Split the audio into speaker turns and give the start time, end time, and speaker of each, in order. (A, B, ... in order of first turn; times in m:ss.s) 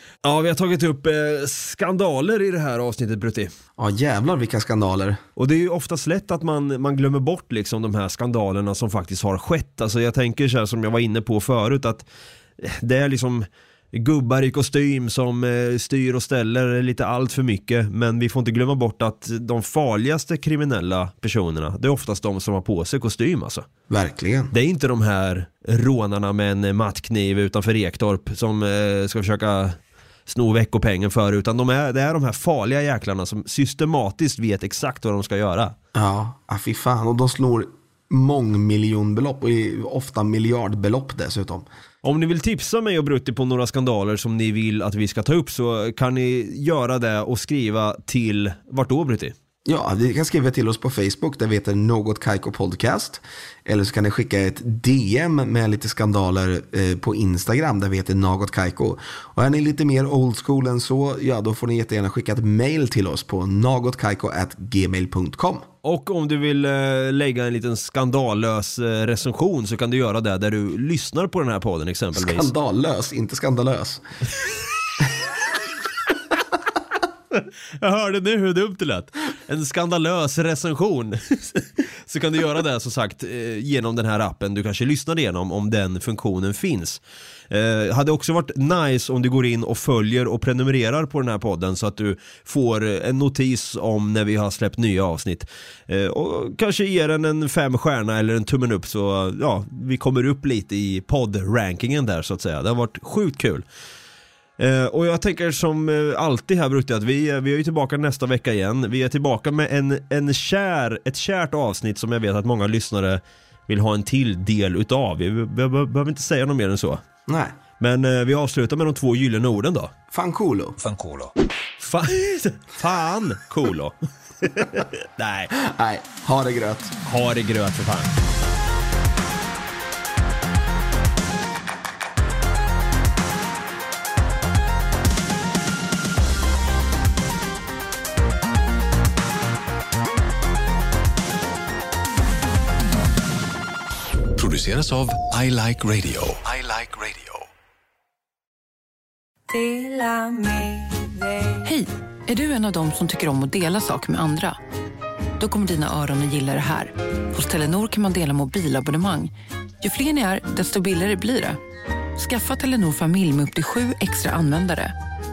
0:00.2-0:03.5 A
0:03.8-0:05.2 B
0:05.4-0:12.0 A
0:12.6-0:23.7 A
0:23.9-0:24.5 B
0:24.5-0:35.7 A
0:35.9-0:41.6 B
0:42.0-0:49.3 A
0:49.6-1:05.7 B
1:05.8-1:12.5 A
1:12.1-1:14.0 B
1:17.8-1:43.6 A
1:44.6-1:57.0 A
1:57.3-1:57.5 B
1:57.8-1:59.9 A
2:00.1-2:00.8 B
2:00.8-2:01.3 C
2:01.8-2:05.5 A
2:05.5-2:07.0 B
2:07.0-2:08.1 A
2:24.4-2:27.4 C
2:29.5-2:34.6 D
2:35.4-2:41.6 D
2:42.2-2:44.9 D